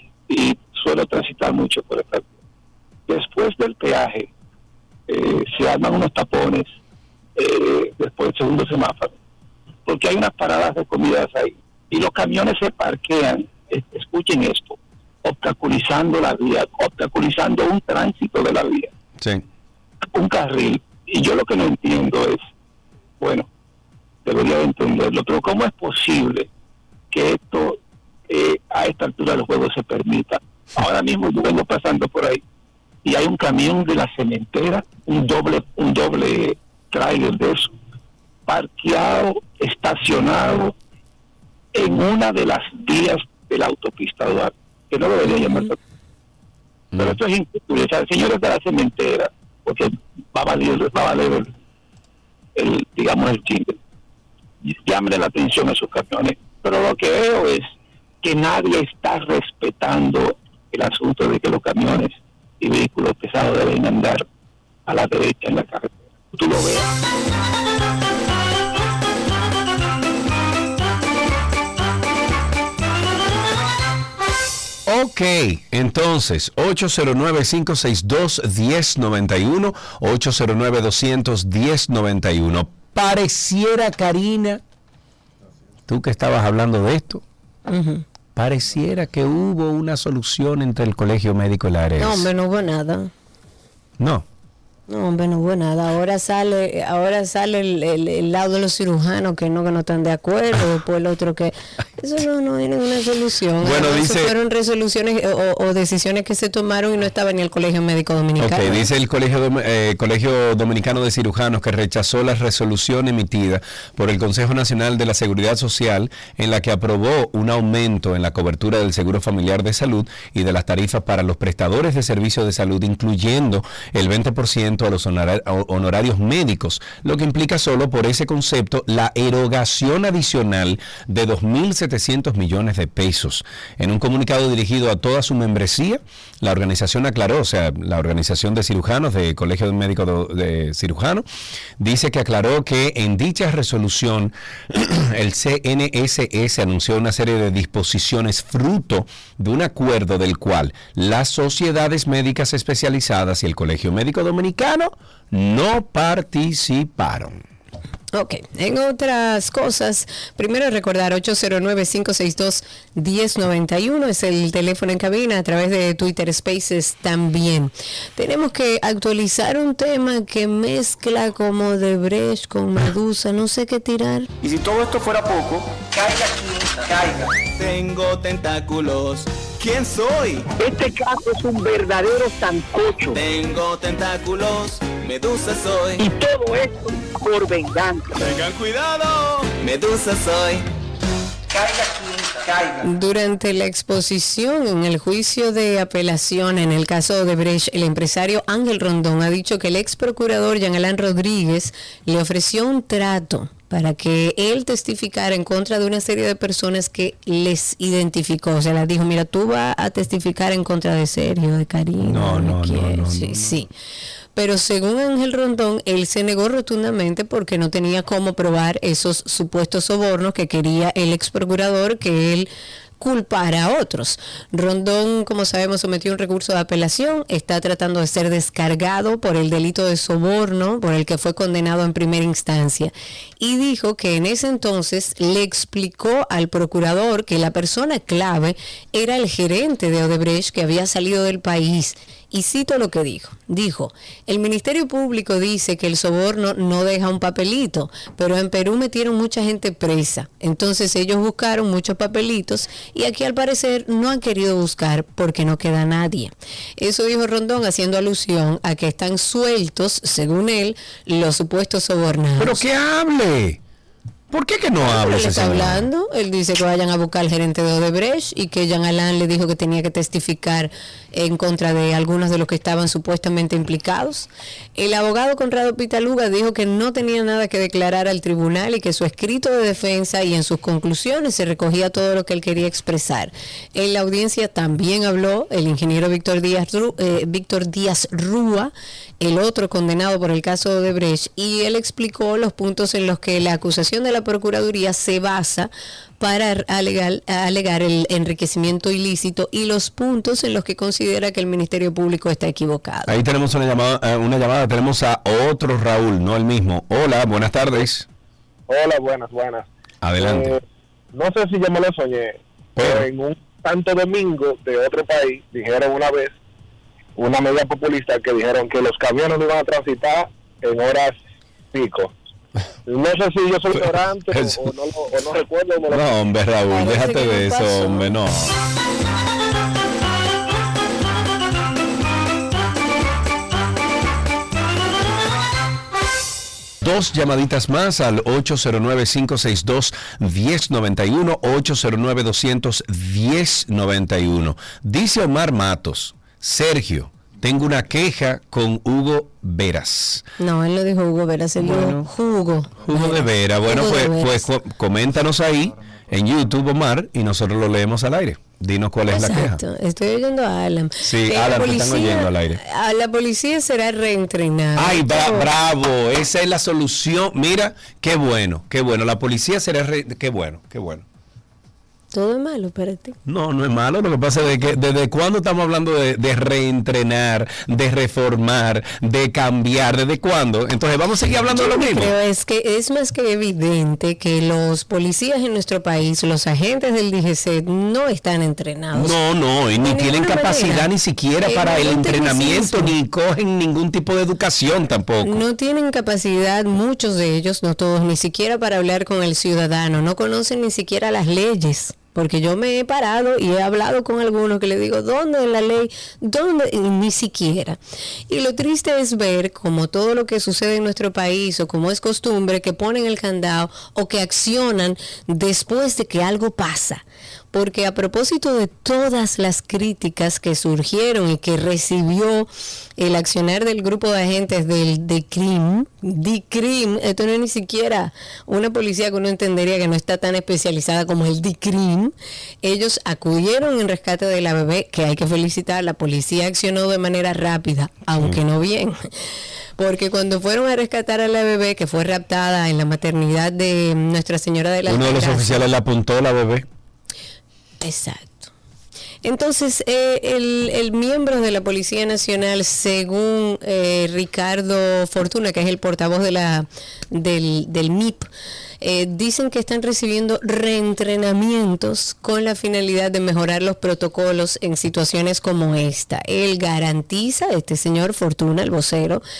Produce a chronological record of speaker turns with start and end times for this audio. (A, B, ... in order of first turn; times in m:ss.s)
0:00.3-0:02.3 A
0:03.1-0:04.3 A
0:05.1-0:06.7 A
0:07.4-0:09.1 A
0:09.8-0:18.9 A
0:20.1-0:22.4 A
0:23.2-0:23.5 A
0:24.2-0:26.5 A
0:27.1-0:32.4 A
0:33.0-0:37.7 A
0:38.5-0:40.7 A
0:41.7-0:45.8 A
0:47.0-0:51.5 A
0:52.6-0:53.8 A
0:54.6-0:57.7 A
0:58.2-1:04.2 A
1:04.9-1:06.9 A
1:14.9-1:24.6 B
1:25.9-1:27.2 B
1:27.7-1:28.0 C
1:28.3-1:32.3 B
1:32.0-1:33.1 C
1:34.0-1:34.2 B
1:34.9-1:48.9 C
1:43.6-1:44.3 B
1:48.4-2:21.2 B
2:21.8-2:37.4 B
2:38.1-2:54.3 C
2:55.8-3:00.5 D
3:00.8-3:01.8 E
3:03.1-3:06.0 D
3:06.2-3:07.8 E
3:08.2-3:10.6 D
3:11.6-3:12.7 D
3:12.8-3:33.7 C
3:32.0-3:33.5 B
3:34.3-4:22.6 C
4:22.4-4:23.6 B
4:24.3-4:25.9 B
4:24.8-5:03.2 C
5:03.1-5:08.1 B
5:08.7-5:10.6 F
5:10.0-5:10.6 B
5:11.1-5:16.4 F
5:12.8-5:13.0 B
5:17.2-5:21.2 F
5:21.7-5:22.1 F
5:22.9-5:26.0 F
5:23.7-5:24.6 B
5:25.9-5:28.5 B
5:26.7-5:28.1 C
5:36.8-5:50.2 B
5:50.4-5:54.5 C
5:51.6-5:52.1 B
5:52.8-5:59.6 B
5:59.1-6:05.5 C
6:01.0-6:02.6 B
6:04.8-6:11.0 B
6:12.1-6:13.2 C
6:13.2-6:22.1 B
6:21.5-6:29.2 C
6:28.9-6:35.4 B
6:29.8-6:30.9 C
6:31.4-6:33.0 C
6:35.2-7:19.0 C
7:19.8-7:25.7 C
7:24.9-7:26.7 B
7:27.8-7:28.5 C
7:29.2-7:38.3 C
7:38.8-7:49.2 C